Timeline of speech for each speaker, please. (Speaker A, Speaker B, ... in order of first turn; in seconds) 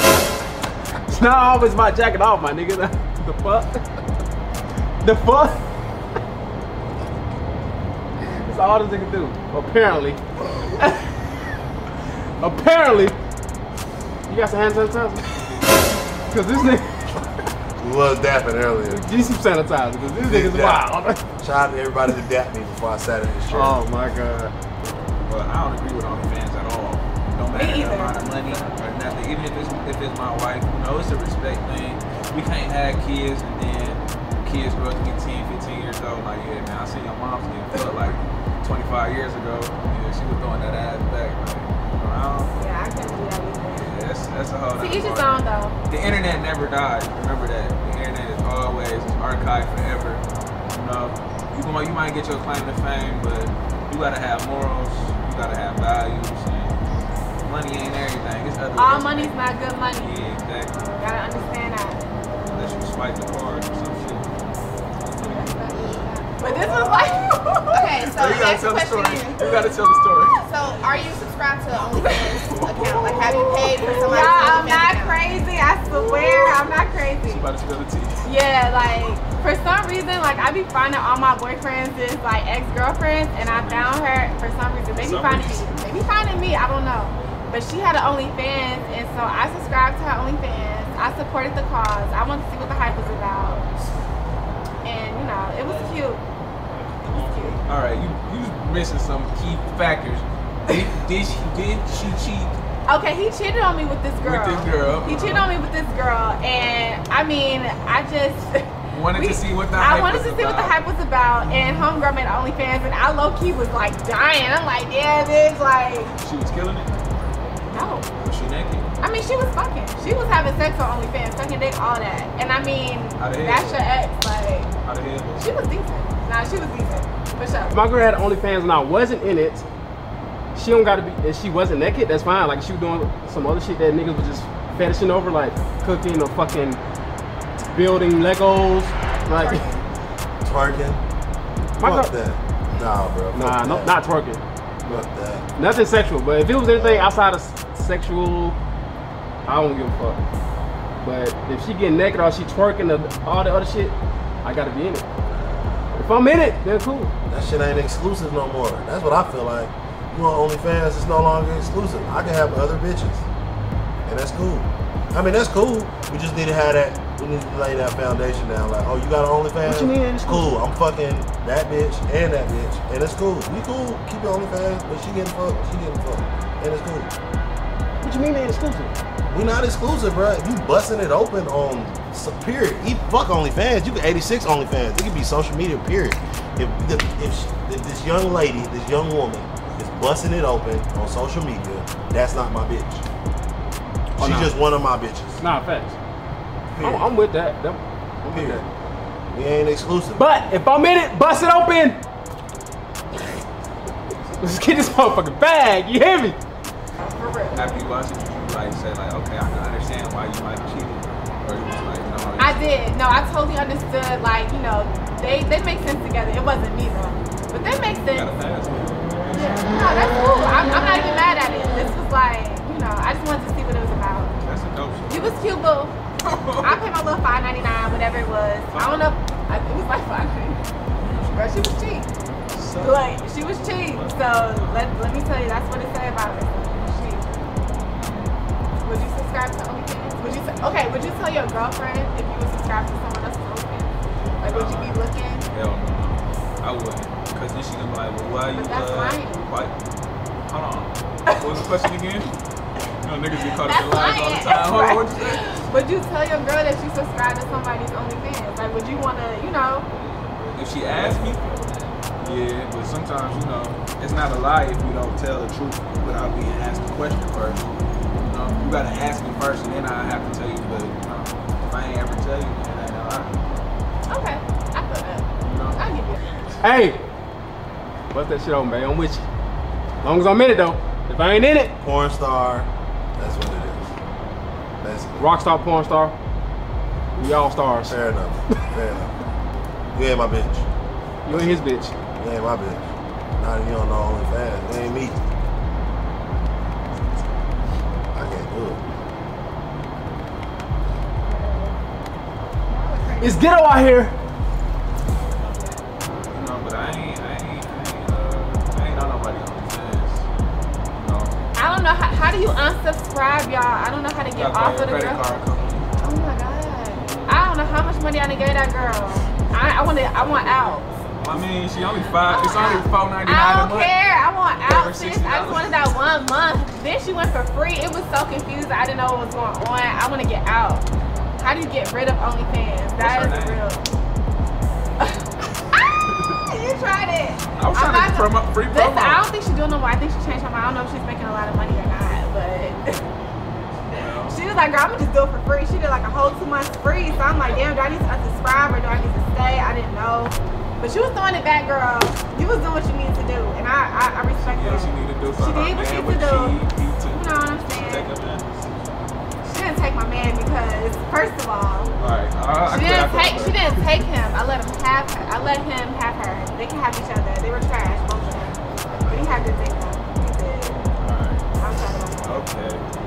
Speaker A: 1.1-3.8, 5.0-5.6, 8.4-11.0, 12.4-13.2, 14.3-15.2, 16.3-17.3, 18.9-21.2, 23.5-24.5, 127.7-129.7, 130.5-136.8, 137.7-139.7, 141.8-142.1, 143.3-145.0, 145.6-148.6, 149.4-150.2, 151.0-155.1, 155.9-157.1, 169.6-170.6, 178.0-178.9, 194.2-194.5, 195.4-196.0, 196.8-198.6, 200.2-202.0, 204.4-206.4, 276.6-277.0, 278.1-279.2, 280.0-281.7, 285.1-286.2, 287.1-287.9, 291.2-291.9, 303.2-304.2
Speaker B: 17.8-19.1, 20.2-20.9, 21.4-23.8, 140.4-141.0, 141.8-143.9, 144.8-145.4, 146.6-147.2, 155.3-155.9, 157.3-163.3, 164.0-177.1, 179.3-193.0, 194.2-195.4, 196.7-197.1, 198.3-198.7, 199.3-200.2, 281.8-283.9, 284.8-285.3, 287.9-289.1, 289.9-290.6, 291.3-291.6, 292.1-295.2, 298.1-298.8
Speaker C: 25.2-42.5, 43.8-56.8, 57.4-59.4, 59.9-61.4, 62.5-64.3, 65.0-65.5, 66.5-70.4, 72.0-74.3, 77.2-78.2, 83.5-84.0, 85.0-85.8, 97.6-102.6, 104.2-105.5, 108.9-110.8, 116.1-117.3, 118.2-118.9, 123.2-123.8, 124.8-125.5, 207.5-212.8, 218.1-219.7, 224.4-225.4, 226.2-226.8, 228.7-229.2, 230.9-231.7, 232.5-233.1, 233.7-234.9, 237.9-238.3, 244.4-245.0, 245.5-249.8, 250.4-252.3, 253.0-255.6, 260.5-261.5, 262.2-267.7, 268.2-273.4, 275.4-275.8, 306.3-310.3, 310.9-311.3, 314.3-315.9, 321.2-323.9, 324.6-325.8, 333.0-333.6, 337.5-339.2, 343.9-344.4, 354.4-358.5, 362.0-363.9, 371.0-371.4, 372.2-372.8
Speaker D: 27.5-28.6, 42.6-43.9, 44.7-45.8, 58.7-60.2, 60.7-62.0, 65.2-67.7, 73.3-77.5, 78.2-93.6, 94.8-96.2, 97.0-97.6, 102.9-116.1, 117.7-118.1, 119.0-124.7, 125.4-127.7, 207.0-207.8, 212.4-218.3, 219.3-224.3, 225.1-225.9, 226.6-230.6, 231.3-232.1, 232.8-237.2, 238.8-245.4, 248.5-249.5, 253.6-259.9, 274.1-276.2, 301.3-301.7, 311.6-315.4, 316.0-320.9, 322.3-330.9, 331.4-333.8, 335.0-335.8, 336.5-343.0, 344.2-358.1, 359.4-361.9, 362.6-370.8, 371.6-372.4
Speaker E: 67.7-75.2, 139.3-139.8, 302.7-303.5